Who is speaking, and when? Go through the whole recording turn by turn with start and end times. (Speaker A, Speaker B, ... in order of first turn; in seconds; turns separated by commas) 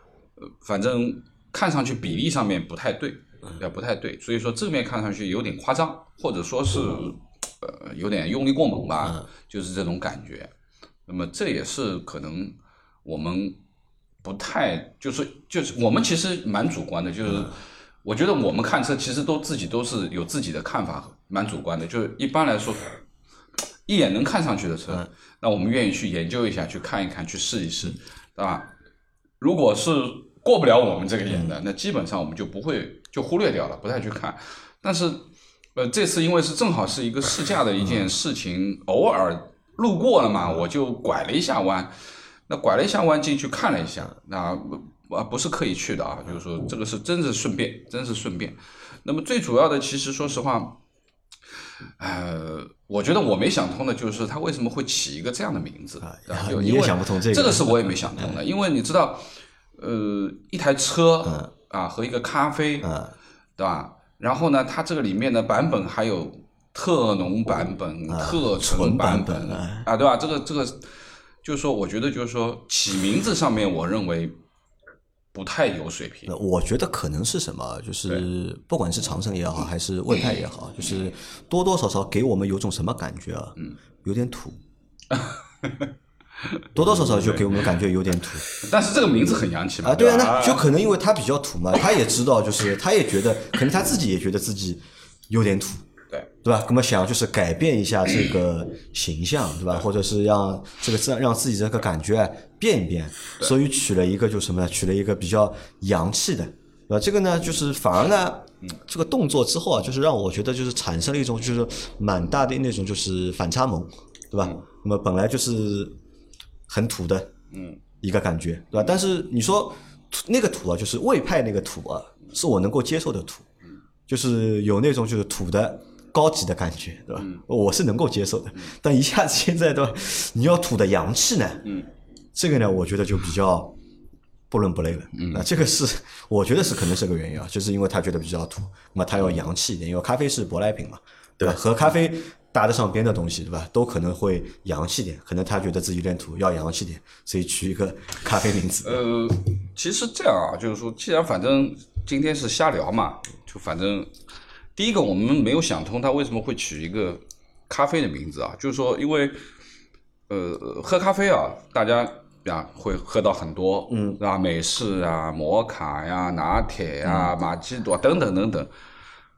Speaker A: 0.4-10.5, Speaker A: 11.1-13.6, Speaker A: 14.2-22.9, Speaker B: 17.3-17.5, Speaker A: 23.9-28.7, Speaker A: 29.4-35.2, Speaker A: 35.8-41.9, Speaker A: 42.5-50.8, Speaker A: 52.0-62.9, Speaker B: 56.0-58.3, Speaker B: 61.2-61.5, Speaker B: 62.8-63.1, Speaker A: 63.6-70.8, Speaker B: 68.1-69.9, Speaker A: 71.4-74.3, Speaker A: 75.3-76.3, Speaker B: 76.3-84.6, Speaker A: 85.2-85.9, Speaker B: 86.7-88.5, Speaker A: 86.8-87.5, Speaker A: 88.5-90.7, Speaker B: 89.8-95.8, Speaker B: 96.4-116.0, Speaker B: 116.7-117.3, Speaker A: 117.5-117.8, Speaker B: 118.0-123.5, Speaker B: 124.1-131.8, Speaker B: 132.3-133.8, Speaker B: 134.5-149.0, Speaker A: 135.1-135.5, Speaker A: 148.8-154.1, Speaker A: 154.8-159.4, Speaker A: 160.3-168.7, Speaker B: 163.9-164.2, Speaker B: 167.0-167.3